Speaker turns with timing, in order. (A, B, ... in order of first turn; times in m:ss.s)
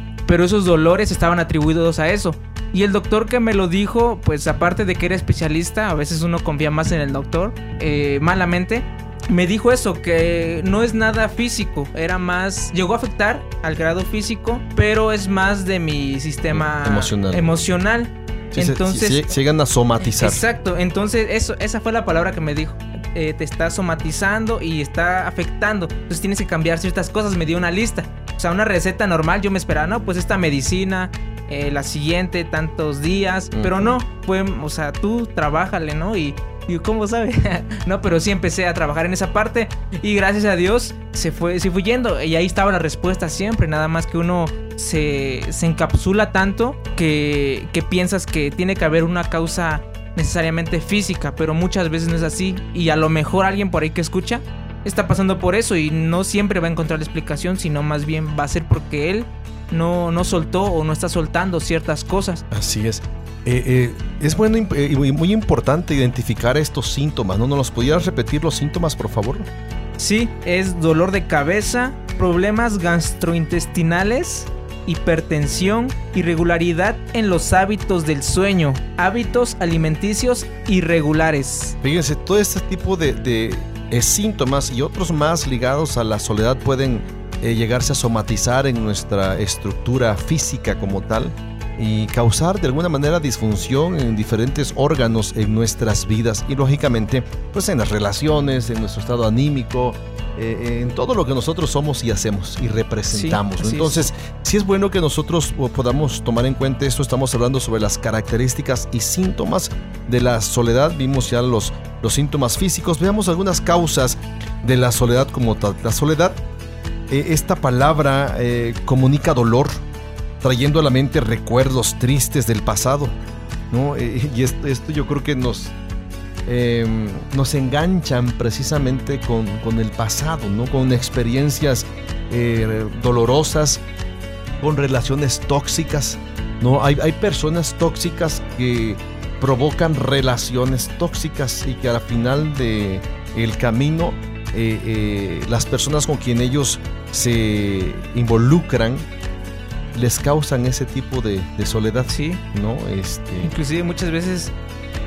0:00.2-0:19.3 A
0:16.5-0:17.5 B
0:18.5-0:20.4 B
0:20.1-1:02.4 A
0:33.5-0:34.0 B
1:02.5-1:09.5 B
1:10.0-1:21.7 A
1:21.8-1:56.4 B
1:43.1-1:44.1 A
1:57.1-1:59.8 B
2:00.4-2:03.2 B
2:03.7-2:05.7 B
2:06.4-2:13.8 B
2:14.6-2:29.1 B
2:29.9-2:33.5 B
2:32.1-2:32.4 A
2:33.4-2:34.5 A